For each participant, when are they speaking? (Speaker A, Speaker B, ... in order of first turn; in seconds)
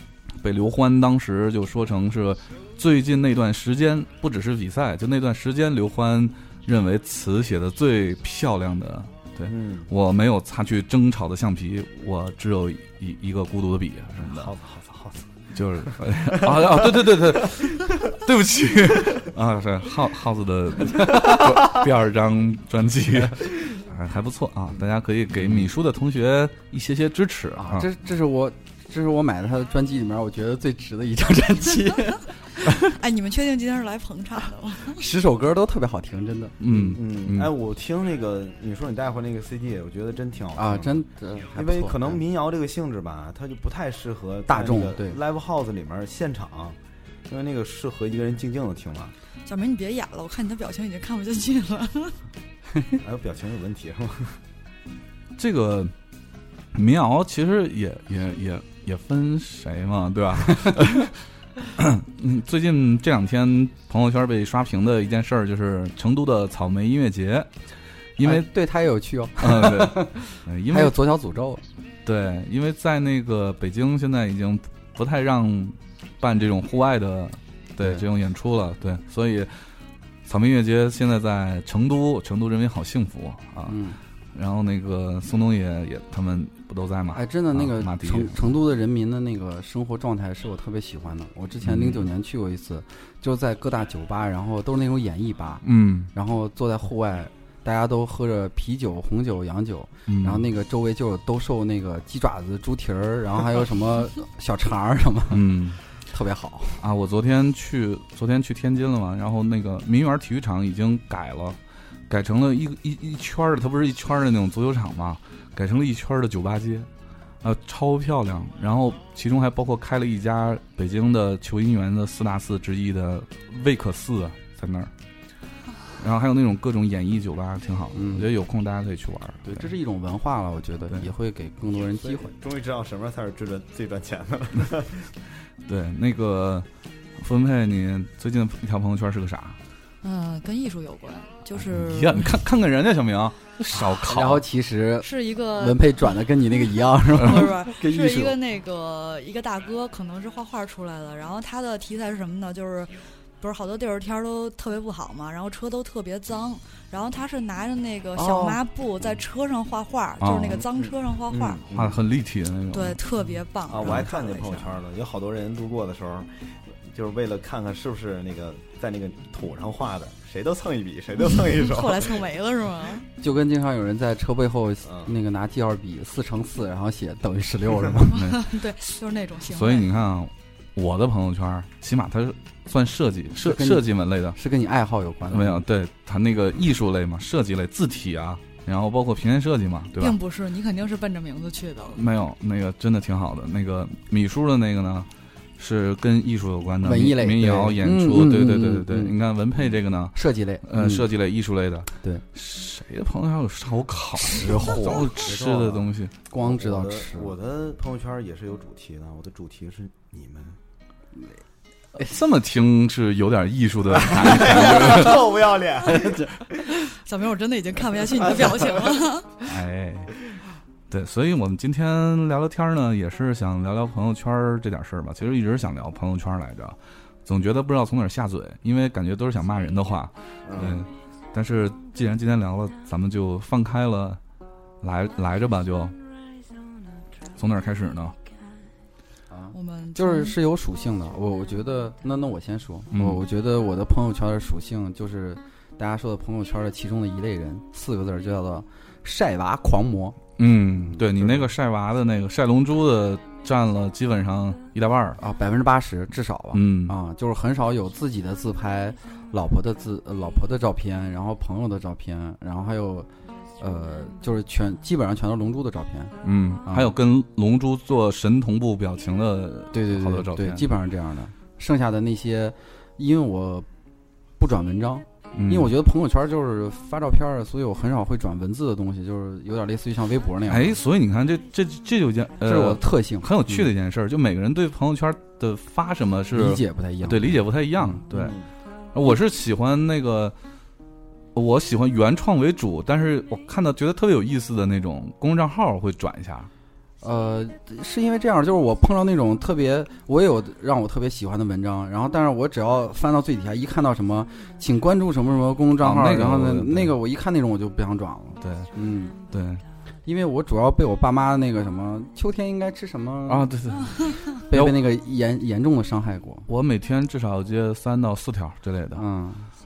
Speaker A: 0.4-14.5, 15.5-27.9, 36.6-37.5, 55.4-55.9, 56.7-61.2, 61.8-67.5, 68.2-68.5, 69.4-71.0, 72.0-79.5, 80.2-83.8, 84.3-88.5, 91.6-92.0, 95.6-96.1, 100.1-100.5, 105.3-105.8, 106.8-111.6, 112.1-116.9, 117.4-124.9, 126.0-129.7, 135.7-136.7, 137.2-139.6, 141.5-144.4, 160.2-160.6, 161.7-163.0, 178.1-178.4, 179.5-184.4, 185.3-190.2, 191.9-206.1, 211.9-215.3, 219.4-220.1, 220.9-234.2, 234.8-235.9, 237.3-238.1, 242.9-243.2, 250.4-255.2, 256.5-256.9, 266.2-270.6, 275.3-275.7, 280.5-288.4, 288.9-290.3, 291.3-296.5, 305.8-306.9, 308.4-308.7, 309.3-309.6, 313.3-314.8, 316.5-319.0
Speaker B: 9.5-9.9, 14.2-15.3, 16.2-17.4, 36.7-46.8, 47.3-49.1, 53.0-54.4, 131.9-135.1, 160.6-162.0, 163.7-172.3, 174.8-175.1, 204.9-210.6, 214.0-216.5, 230.4-230.8, 288.1-288.4
Speaker C: 21.0-21.4, 27.6-32.2, 34.9-36.6, 40.5-42.2, 44.5-45.2, 68.2-71.6, 83.7-84.0, 87.1-105.5, 106.1-106.8, 127.9-128.3, 129.4-132.3, 144.1-148.3, 158.1-158.6, 173.2-178.2, 183.4-185.6, 196.8-199.1, 200.1-201.1, 206.3-207.3, 215.8-216.3, 239.3-250.2, 250.8-251.3, 255.2-263.1, 263.6-266.9, 269.7-273.7, 274.4-280.8, 282.4-283.7, 286.3-288.1, 297.0-309.1, 310.1-313.5, 314.5-316.5, 318.9-319.5
Speaker D: 32.8-35.0, 49.4-52.1, 140.0-142.3, 145.0-146.2, 147.1-161.6, 162.7-164.7, 171.6-173.0, 178.1-179.9, 190.0-192.0, 216.9-219.3, 239.5-240.3